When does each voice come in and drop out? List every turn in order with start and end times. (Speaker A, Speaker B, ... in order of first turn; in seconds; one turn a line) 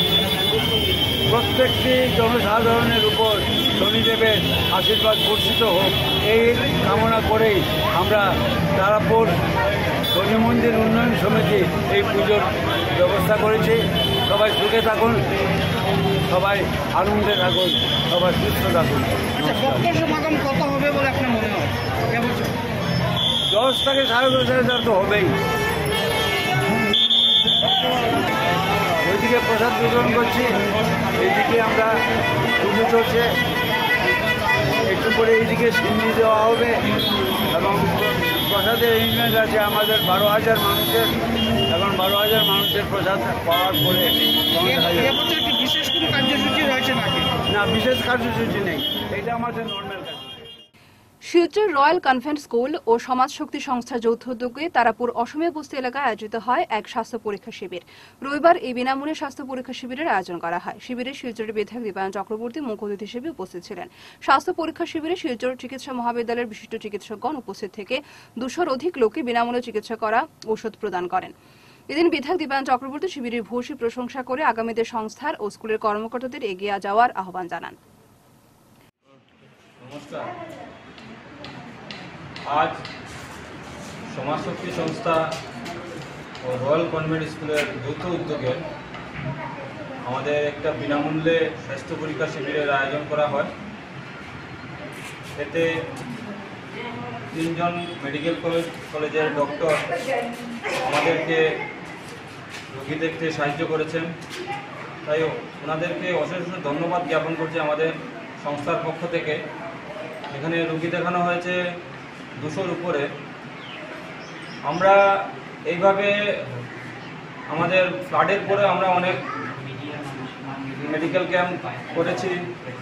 Speaker A: 1.3-9.3
Speaker A: 10.1-15.2
Speaker A: 16.3-19.9
Speaker B: 19.4-22.5
Speaker A: 23.5-25.3
Speaker A: 29.0-30.5
Speaker A: 31.2-31.9
Speaker A: 32.6-33.3
Speaker A: 34.9-36.8
Speaker A: 37.5-41.1
Speaker A: 41.7-45.1
Speaker B: 44.6-47.3
Speaker A: 47.5-50.2
Speaker C: 51.3-71.3
Speaker C: 71.9-77.8
Speaker D: 79.8-80.3
Speaker D: 82.5-82.8
Speaker D: 84.1-85.3
Speaker D: 86.4-88.6
Speaker D: 90.0-93.5
Speaker D: 95.4-95.7
Speaker D: 97.3-99.8
Speaker D: 100.8-101.4
Speaker D: 102.7-104.1
Speaker D: 105.0-109.4
Speaker D: 110.3-111.6
Speaker D: 112.4-113.1
Speaker D: 114.6-115.0
Speaker D: 115.7-116.1
Speaker D: 117.5-119.2
Speaker D: 120.7-122.5